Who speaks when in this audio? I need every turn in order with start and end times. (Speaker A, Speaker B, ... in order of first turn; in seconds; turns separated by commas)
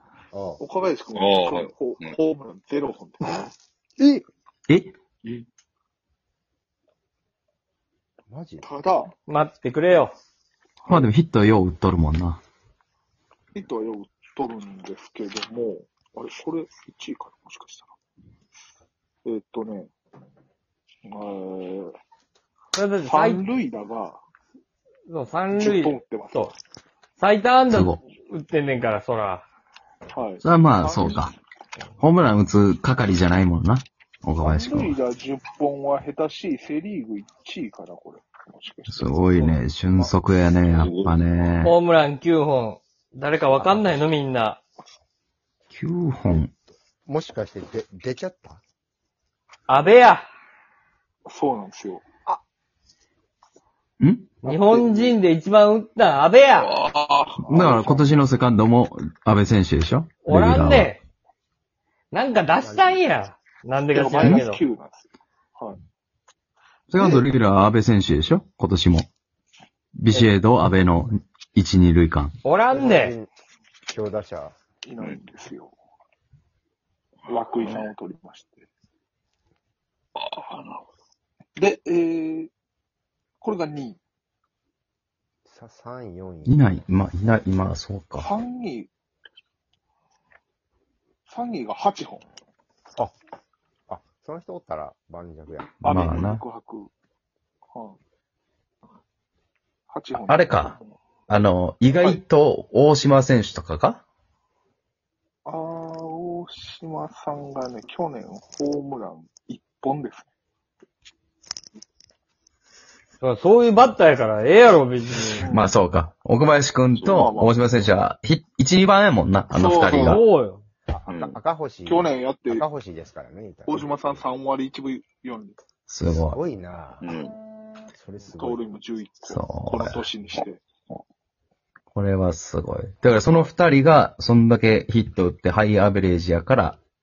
Speaker A: 0.3-0.6, Speaker B: 0.6-3.4, Speaker C: 1.1-2.2, Speaker A: 4.0-4.2, Speaker D: 4.7-4.9, Speaker A: 8.3-8.7, Speaker B: 8.6-9.1, Speaker E: 9.3-10.2, Speaker B: 10.8-11.1, Speaker D: 10.9-12.4, Speaker B: 13.5-17.9, Speaker B: 19.2-19.9, Speaker B: 21.1-21.9, Speaker E: 22.7-23.4, Speaker B: 23.0-24.2, Speaker E: 25.1-26.5, Speaker B: 25.5-26.6, Speaker E: 27.2-29.4, Speaker D: 27.7-28.0, Speaker B: 30.1-31.3, Speaker D: 30.4-31.3, Speaker D: 32.0-35.0, Speaker B: 34.4-40.1, Speaker D: 38.9-41.8, Speaker C: 40.6-41.5, Speaker E: 41.6-44.6, Speaker D: 45.7-46.5, Speaker A: 47.1-48.6, Speaker E: 49.7-50.3, Speaker B: 51.3-52.0, Speaker D: 54.0-54.4, Speaker E: 54.4-56.7, Speaker B: 54.5-55.2, Speaker B: 56.5-58.1, Speaker A: 57.4-57.8, Speaker D: 57.5-61.0, Speaker E: 60.2-61.0, Speaker E: 62.1-64.6, Speaker A: 62.6-63.0, Speaker B: 63.9-65.8, Speaker D: 66.9-69.1, Speaker B: 67.0-67.3, Speaker D: 70.0-72.3, Speaker E: 72.4-73.2, Speaker A: 72.7-73.3, Speaker A: 73.9-74.5, Speaker B: 74.8-75.8, Speaker C: 77.3-77.9, Speaker B: 77.3-78.7, Speaker C: 80.2-80.9, Speaker B: 81.6-82.5, Speaker B: 83.4-84.0, Speaker A: 85.5-86.6, Speaker D: 86.5-88.3, Speaker B: 88.2-88.9, Speaker B: 91.3-92.3, Speaker A: 93.9-95.8, Speaker B: 95.8-96.9, Speaker D: 95.8-96.4, Speaker B: 99.9-100.9, Speaker D: 100.2-100.8, Speaker D: 101.3-104.0, Speaker B: 105.5-110.3, Speaker E: 113.2-115.5, Speaker B: 115.4-115.7, Speaker D: 115.5-120.2, Speaker B: 117.0-117.8, Speaker B: 119.5-120.2, Speaker E: 120.0-120.6, Speaker A: 120.9-124.2, Speaker C: 121.1-121.4, Speaker B: 121.8-122.7, Speaker B: 123.7-125.6, Speaker D: 125.9-126.4, Speaker A: 126.2-127.1, Speaker C: 127.0-127.4, Speaker A: 127.9-128.6, Speaker B: 128.3-130.6, Speaker D: 129.3-130.0, Speaker D: 131.9-136.8, Speaker B: 133.2-133.5